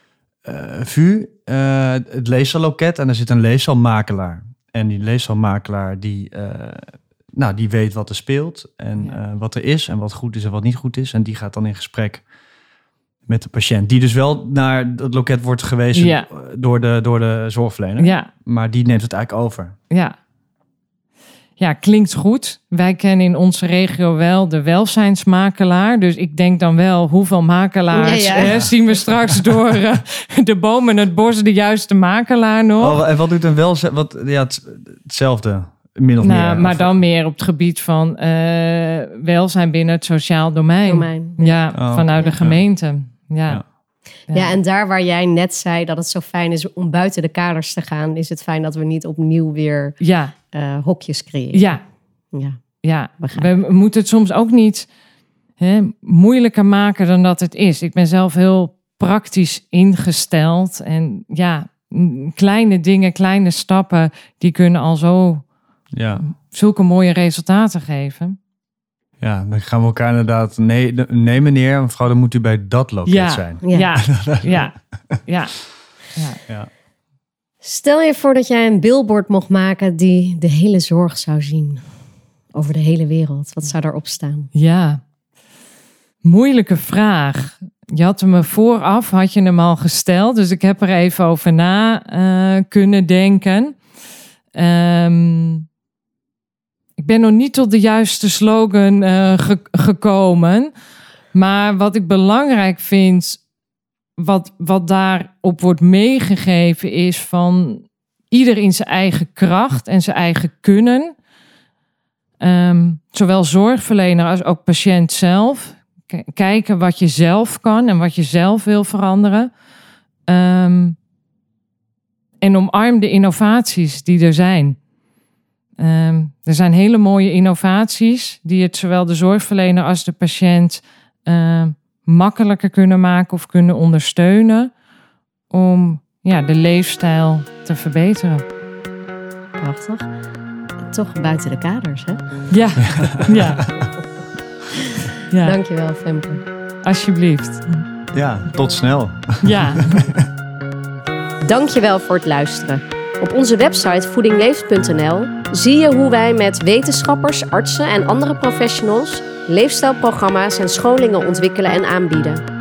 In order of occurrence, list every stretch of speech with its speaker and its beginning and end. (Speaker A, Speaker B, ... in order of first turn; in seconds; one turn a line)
Speaker A: 0.4-12.2
Speaker A: 13.3-19.8
Speaker B: 15.9-16.3
Speaker B: 18.0-18.3
Speaker B: 21.6-33.0
Speaker C: 27.9-28.6
Speaker A: 28.4-28.7
Speaker A: 32.8-37.0
Speaker B: 36.2-43.6
Speaker C: 40.9-42.4
Speaker A: 41.8-42.6
Speaker B: 44.3-44.6
Speaker C: 44.3-50.0
Speaker B: 50.0-50.4
Speaker C: 50.5-51.7
Speaker B: 51.5-51.8
Speaker C: 52.3-52.6
Speaker B: 52.8-54.9
Speaker C: 53.2-53.5
Speaker B: 55.6-65.4
Speaker A: 65.9-66.2
Speaker B: 66.3-68.4
Speaker A: 69.2-75.2
Speaker B: 73.1-76.4
Speaker C: 77.6-81.8
Speaker C: 82.5-84.5
Speaker B: 84.5-85.0
Speaker B: 86.2-93.8
Speaker B: 94.5-95.7
Speaker B: 97.0-100.7
Speaker B: 101.3-103.4
Speaker B: 104.2-111.1
Speaker B: 112.4-119.5
Speaker B: 120.3-121.0
Speaker B: 122.4-124.8
Speaker B: 125.8-134.7
Speaker B: 135.5-138.4
Speaker C: 139.6-140.1
Speaker C: 140.9-142.2
Speaker B: 142.5-143.7
Speaker A: 142.8-143.8
Speaker C: 144.9-146.4
Speaker B: 145.3-145.6
Speaker B: 146.8-147.8
Speaker A: 148.1-150.3
Speaker B: 149.4-150.0
Speaker C: 151.4-162.4